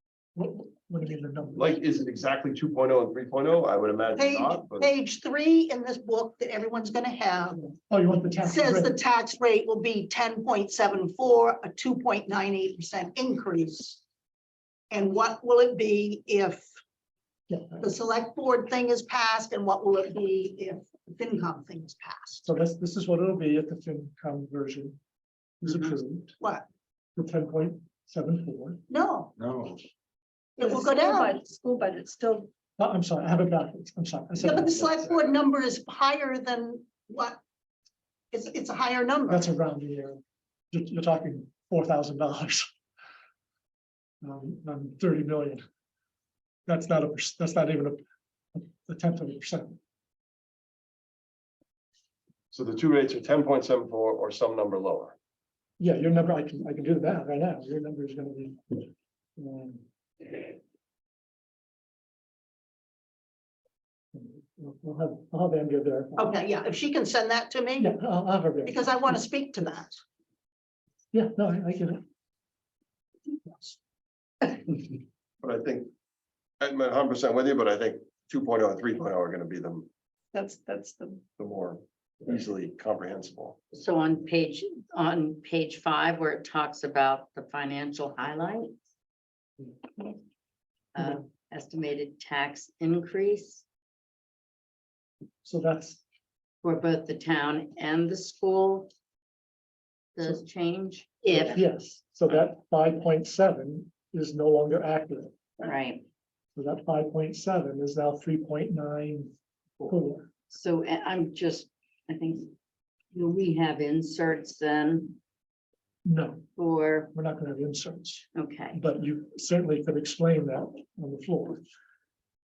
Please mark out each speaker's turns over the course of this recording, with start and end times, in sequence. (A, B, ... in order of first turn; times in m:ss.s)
0:00.3-0:01.8 A
0:01.6-0:04.9 B
0:04.2-0:07.7 C
0:07.9-0:09.0 A
0:08.4-0:14.0 C
0:14.9-0:16.7 C
0:17.5-0:17.8 A
0:17.8-0:22.4 C
0:22.4-0:25.0 A
0:25.6-0:26.3 A
0:26.4-0:26.7 C
0:27.2-0:28.8 A
0:28.9-0:29.3 C
0:30.6-0:31.4 C
0:30.6-0:32.5 D
0:32.8-0:35.1 A
0:34.4-0:37.4 C
0:38.3-0:39.5 C
0:39.3-0:40.2 A
0:40.7-0:42.7 A
0:44.2-0:45.6 A
0:46.7-0:48.0 A
0:48.5-0:49.8 A
0:52.5-0:55.2 B
0:55.8-0:59.8 A
1:04.1-1:06.3 A
1:06.2-1:07.9 C
1:07.8-1:08.9 A
1:08.6-1:10.0 C
1:11.1-1:12.0 A
1:13.5-1:13.7 C
1:15.4-1:15.9 B
1:16.6-1:19.9 B
1:20.3-1:21.2 D
1:21.4-1:23.6 B
1:23.7-1:28.7 E
1:30.9-1:33.6 E
1:35.4-1:36.0 A
1:36.6-1:38.9 E
1:40.2-1:41.6 E
1:41.3-1:45.5 A
1:45.6-1:46.0 E
1:46.6-1:49.3 A
1:49.8-1:50.3 A
1:50.5-1:52.5 E
1:53.1-1:55.2 E
1:56.0-1:56.5 A
1:56.6-1:57.1 E
1:57.1-2:01.6 A
1:58.3-1:58.8 E